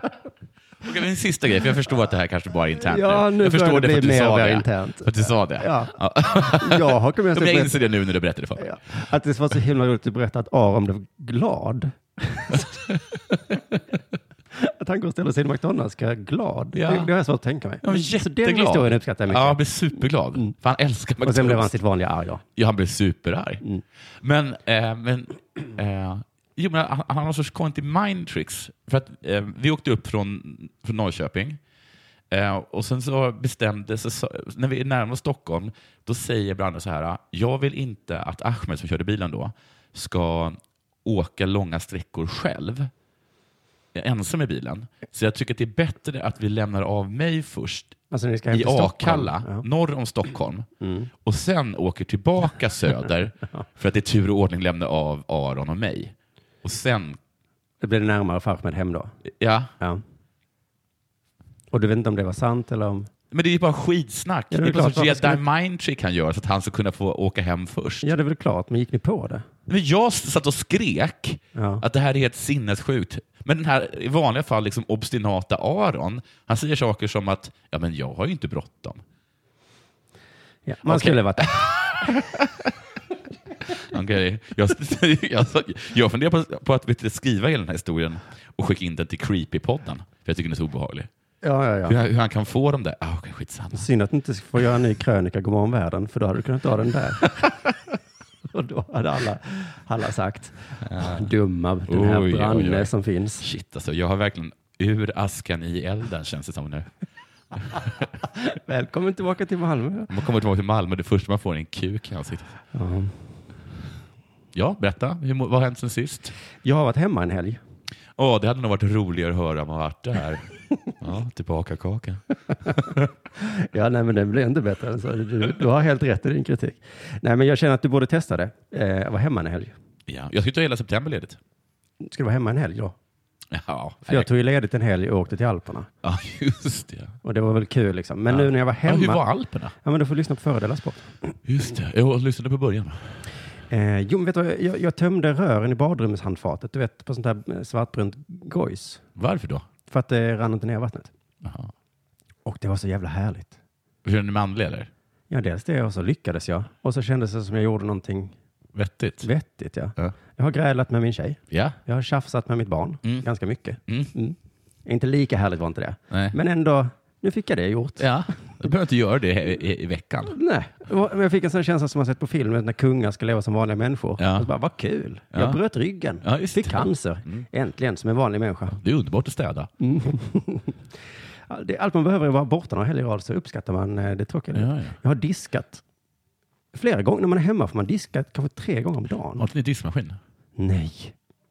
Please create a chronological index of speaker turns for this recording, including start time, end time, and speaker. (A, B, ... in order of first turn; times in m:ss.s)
0:00.8-0:08.8 A
0:02.9-0:07.8 B
0:08.6-0:12.8 B
0:12.5-0:13.0 A
0:14.5-0:19.6 B
0:16.7-0:17.1 A
0:17.8-0:21.7 A
0:21.2-0:22.4 B
0:22.6-0:23.6 A
0:24.2-0:31.6 A
0:32.3-0:42.9 A
0:43.9-0:48.0 A
0:48.1-0:49.6 B
0:48.5-0:50.7 A
0:50.8-0:51.1 B
0:51.2-0:57.2 A
0:57.8-0:59.1 B
0:59.4-0:59.7 A
1:01.7-1:03.1 B
1:03.3-1:08.1 A
1:04.5-1:05.4 B
1:08.0-1:09.4 B
1:09.7-1:19.0 A
1:11.5-1:11.8 B
1:20.6-1:22.1 B
1:20.8-1:22.7 A
1:23.7-1:31.1 A
1:31.4-1:32.0 B
1:31.8-1:33.8 A
1:33.7-1:37.5 B
1:38.5-1:43.4 B
1:40.8-1:41.3 A
1:41.9-1:46.9 A
1:48.3-1:50.1 B
1:50.1-1:52.5 A
1:52.7-1:53.1 B
1:54.5-1:56.3 A
1:56.6-1:57.6 B
1:58.2-2:03.0 A
2:03.4-2:09.7 B
2:10.1-2:11.4 A
2:12.0-2:12.9 B
2:13.5-2:14.3 A
2:14.1-2:15.9 B
2:16.0-2:17.2 A
2:17.2-2:19.2 B
2:18.3-2:19.7 A
2:19.8-2:21.2 B
2:21.4-2:23.0 A
2:23.7-2:29.0 B
2:29.2-2:29.6 A
2:29.9-2:31.1 B
2:31.4-2:31.7 A
2:32.4-2:33.5 B
2:34.0-2:34.9 A
2:35.3-2:38.3 B
2:38.7-2:39.3 A
2:39.2-2:48.1 B
2:41.5-2:41.8 A
2:46.1-2:46.4 A
2:48.0-2:50.3 A
2:50.3-2:58.8 B
2:54.2-2:54.5 A
2:55.3-2:55.6 A
2:56.2-2:57.4 A
2:58.7-2:59.7 A
2:59.8-3:00.8 B
3:01.5-3:05.8 B
3:04.5-3:05.0 A
3:06.7-3:09.4 B
3:09.4-3:10.2 A
3:10.6-3:11.1 B